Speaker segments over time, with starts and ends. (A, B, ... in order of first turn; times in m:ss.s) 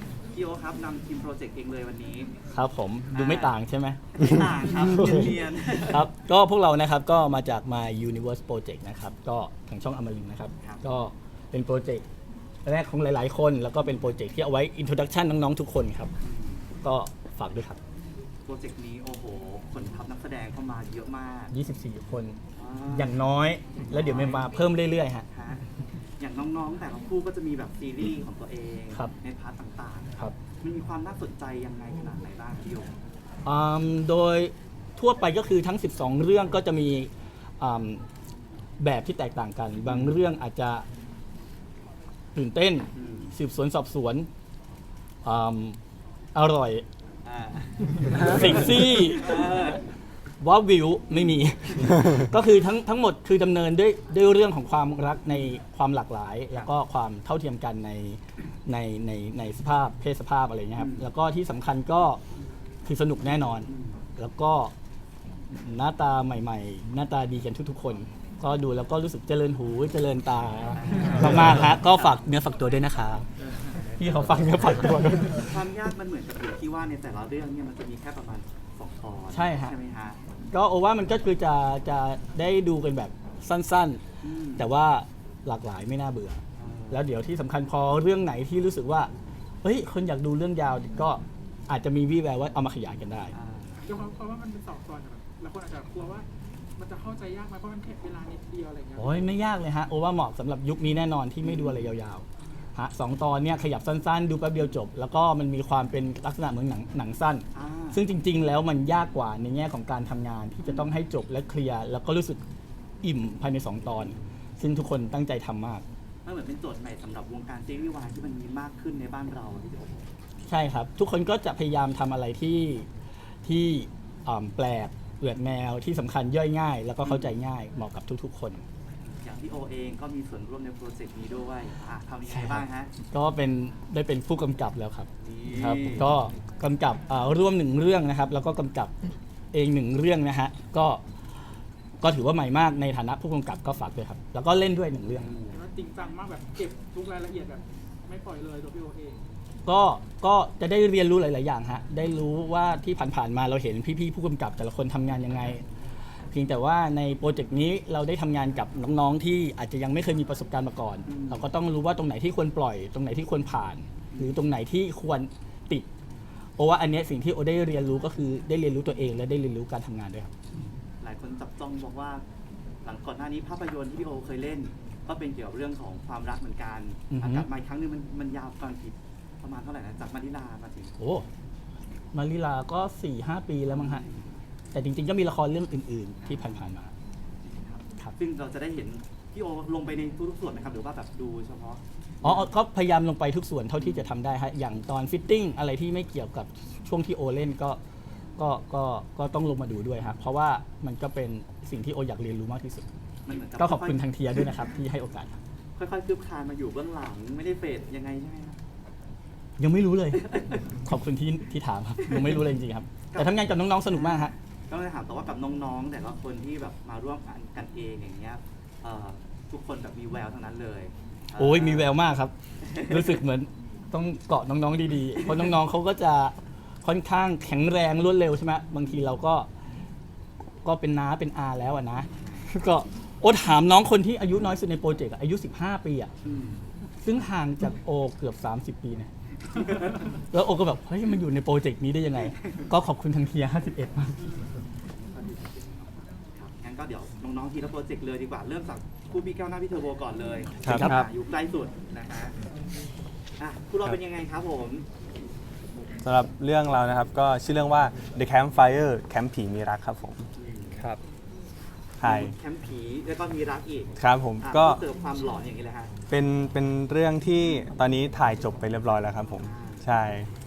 0:00.3-0:02.3 A
0:02.5-0:12.0 B
0:03.1-0:03.5 A
0:04.2-0:06.1 A
0:12.6-0:16.1 B
0:16.2-0:16.6 A
0:16.8-0:17.8 B
0:18.4-0:21.5 A
0:21.5-0:22.4 B
0:22.6-0:23.2 A
0:22.9-0:25.2 B
0:23.8-0:24.5 A
0:25.3-0:25.6 A
0:26.2-0:32.9 A
0:33.4-0:38.0 B
0:38.8-0:40.8 B
0:39.9-0:40.1 A
0:42.3-0:44.3 B
0:43.0-0:43.3 A
0:45.2-0:45.8 B
0:46.3-0:46.8 B
0:47.2-0:49.8 A
0:48.1-0:49.5 B
0:50.4-1:02.2 B
1:00.8-1:01.0 A
1:02.8-1:04.7 B
1:03.7-1:04.0 A
1:05.5-1:13.3 B
1:10.8-1:12.2 A
1:13.4-1:20.2 A
1:14.0-1:15.5 B
1:19.3-1:19.7 B
1:20.5-1:24.0 B
1:24.2-1:24.6 A
1:24.6-1:29.1 B
1:26.6-1:27.0 A
1:29.6-1:33.3 B
1:33.3-1:34.0 A
1:33.8-1:36.2 C
1:36.8-1:39.3 C
1:39.0-1:42.2 B
1:41.4-1:41.8 A
1:42.8-1:52.4 B
1:47.5-1:48.0 A
1:53.0-1:55.8 B
1:56.2-2:00.1 A
2:00.4-2:02.9 B
2:03.4-2:08.6 B
2:07.0-2:07.4 A
2:09.0-2:12.9 A
2:13.1-2:18.9 B
2:15.2-2:16.1 A
2:19.5-2:21.0 B
2:22.0-2:25.3 B
2:25.2-2:25.6 A
2:25.5-2:29.2 C
2:29.6-2:35.6 B
2:36.3-2:45.8 B
2:41.1-2:41.4 A
2:46.6-2:50.3 B
2:51.0-2:52.2 A
2:52.8-3:00.9 A
2:57.1-2:57.5 B
3:01.0-3:01.2 B
3:02.1-3:04.0 B
3:03.9-3:04.3 A
3:04.7-3:06.9 B
3:06.2-3:06.5 A
3:07.4-3:12.4 A
3:12.2-3:17.8 B
3:18.4-3:22.8 B
3:23.2-3:24.0 A
3:23.6-3:25.3 B
3:25.8-3:28.6 A
3:29.6-3:30.3 B
3:30.2-3:30.6 A
3:30.8-3:34.3 B
3:33.1-3:41.9 A
3:41.4-3:49.5 B
3:42.7-3:43.2 A
3:50.6-3:56.1 B
3:56.2-3:56.6 A
3:57.0-3:59.1 B
4:00.3-4:04.2 B
4:06.4-4:12.3 A
4:10.6-4:10.9 D
4:10.6-4:11.0 B
4:13.4-4:14.8 A
4:16.0-4:20.2 D
4:20.4-4:20.7 A
4:22.0-4:22.3 D
4:22.0-4:25.9 A
4:24.0-4:24.8 D
4:26.1-4:30.3 D
4:29.4-4:29.8 A